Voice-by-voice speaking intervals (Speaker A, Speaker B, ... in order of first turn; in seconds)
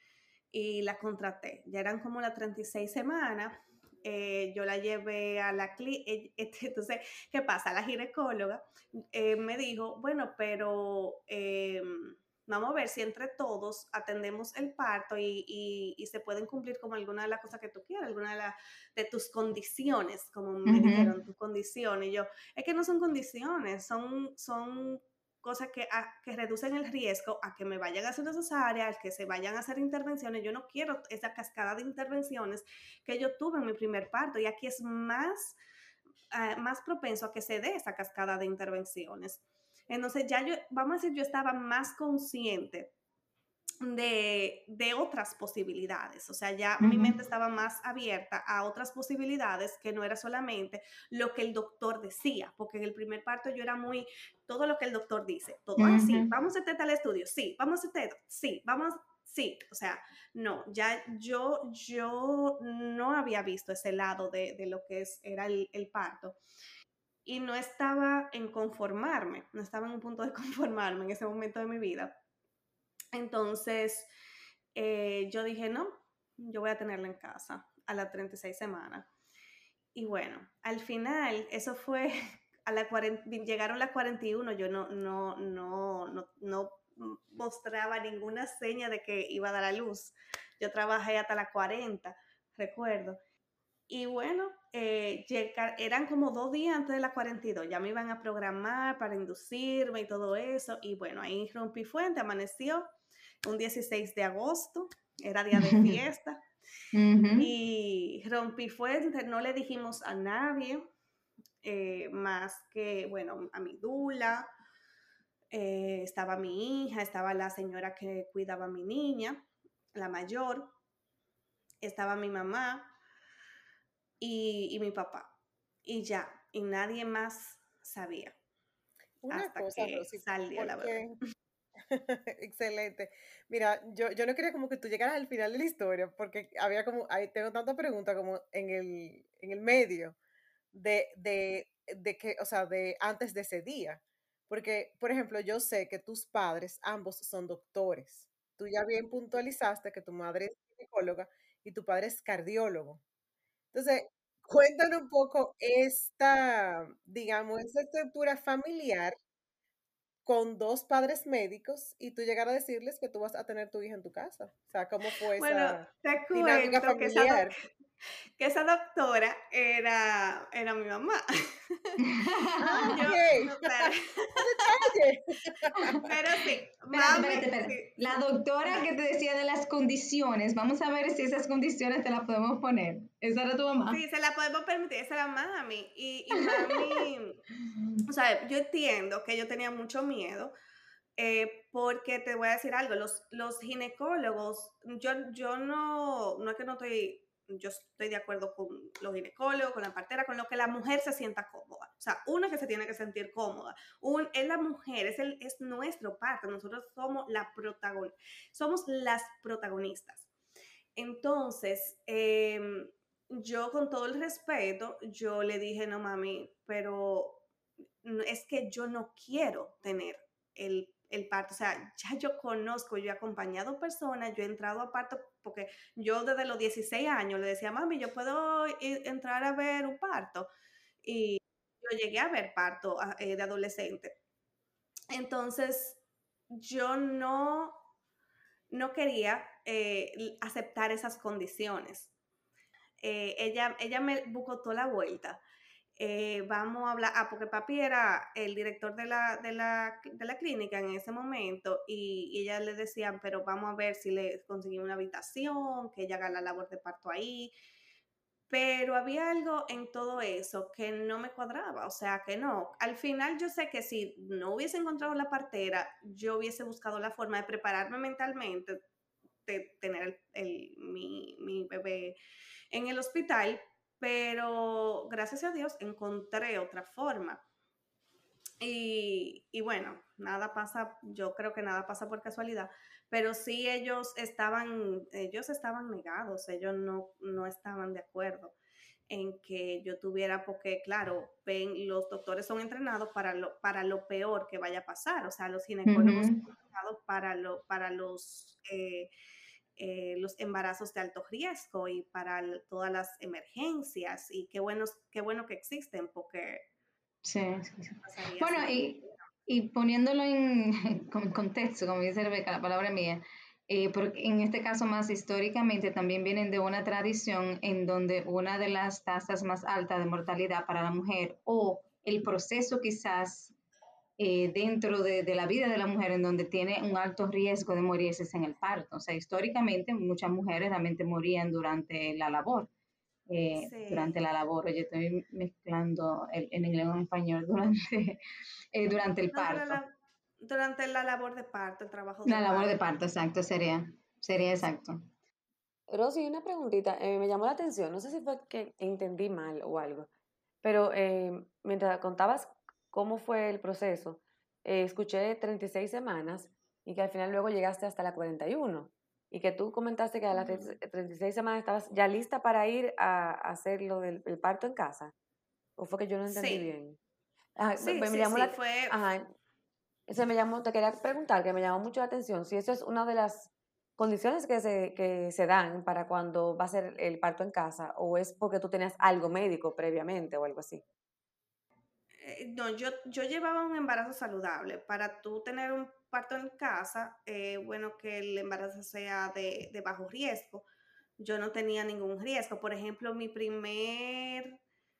Speaker A: 0.5-35.5, 36.3-42.9, 43.8-66.4, 67.2-72.1, 73.1-74.1, 74.7-79.1, 79.9-93.2, 93.9-102.9, 103.4-106.4, 107.3-110.9, 111.6-114.5, 115.5-119.4, 119.9-120.7, 121.8-122.9, 124.2-125.3, 125.8-128.3, 129.3-131.0, 165.4-167.5, 168.4-172.0, 172.8-174.7, 176.0-178.1, 183.9-187.4, 188.1-190.5, 191.2-210.3, 210.9-217.4, 218.0-230.5, 231.0-234.2, 235.1-236.0, 236.5-237.8, 238.7-242.1, 243.0-245.4, 246.0-257.5, 258.5-268.8, 269.4-272.1, 272.7-277.4, 278.6-288.5, 289.1-299.1, 299.8-306.6, 308.0-309.1, 333.6-334.2, 339.3-342.8, 360.3-360.8, 366.3-366.7, 367.8-369.0, 382.2-390.6, 391.2-394.6
Speaker B: 20.7-21.1, 46.8-47.1, 55.8-56.3, 105.5-106.0, 106.9-107.5, 172.0-172.9, 176.9-184.0, 295.9-296.4, 307.2-323.5, 324.2-332.7, 333.3-338.2, 338.7-339.8, 342.2-345.1
Speaker C: 129.2-131.2, 131.8-140.2, 140.7-153.0, 153.7-159.2, 160.2-167.5, 172.6-176.1
Speaker D: 345.9-350.1, 350.6-365.1, 365.8-367.0, 367.6-369.2, 370.1-380.8